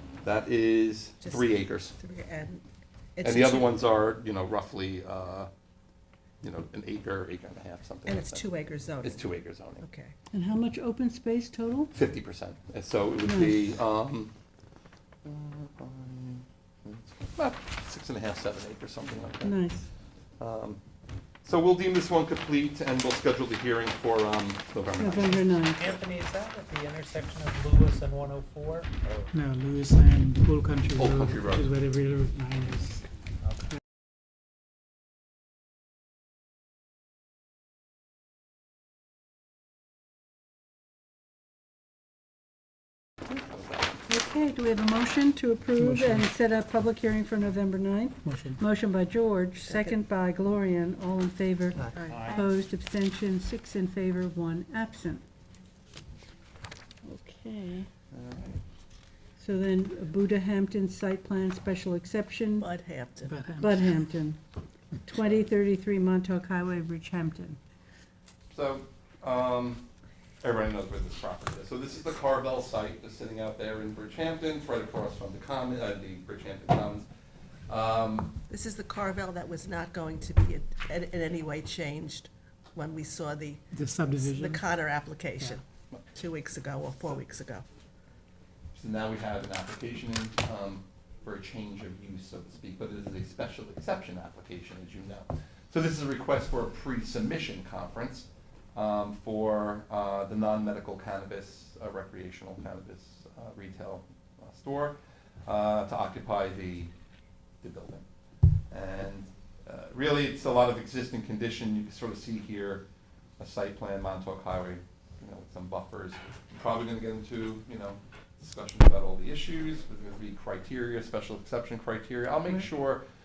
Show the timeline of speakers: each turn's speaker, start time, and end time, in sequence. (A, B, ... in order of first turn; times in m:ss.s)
0:00.2-0:02.0 A
0:01.2-0:02.6 B
0:03.2-0:03.8 B
0:03.2-0:05.5 A
0:06.4-0:08.5 A
0:08.0-0:09.2 B
0:09.0-0:09.9 A
0:09.8-0:10.1 B
0:10.3-0:11.9 C
0:11.9-0:14.3 A
0:13.2-0:13.8 C
0:15.2-0:19.6 A
0:19.4-0:19.8 C
0:20.4-0:20.8 A
0:21.4-0:25.4 A
0:25.0-0:25.8 C
0:25.7-0:29.4 D
0:29.3-0:33.0 E
0:31.0-0:31.7 A
0:33.4-0:33.7 D
0:44.1-0:55.2 C
0:45.8-0:46.2 E
0:49.7-0:50.0 B
0:51.8-0:52.4 B
0:52.1-0:52.5 D
0:57.0-0:57.9 C
0:58.1-0:58.6 A
0:59.4-1:02.7 C
1:02.6-1:03.5 B
1:03.2-1:03.7 E
1:03.6-1:04.4 C
1:05.0-1:07.6 C
1:08.5-1:09.8 A
1:10.4-1:17.0 A
1:17.7-1:18.3 A
1:18.5-1:27.6 B
1:23.7-1:24.6 E
1:28.7-1:46.9 A
1:47.6-1:48.0 A
1:48.7-1:52.8 A
1:53.4-2:03.0 A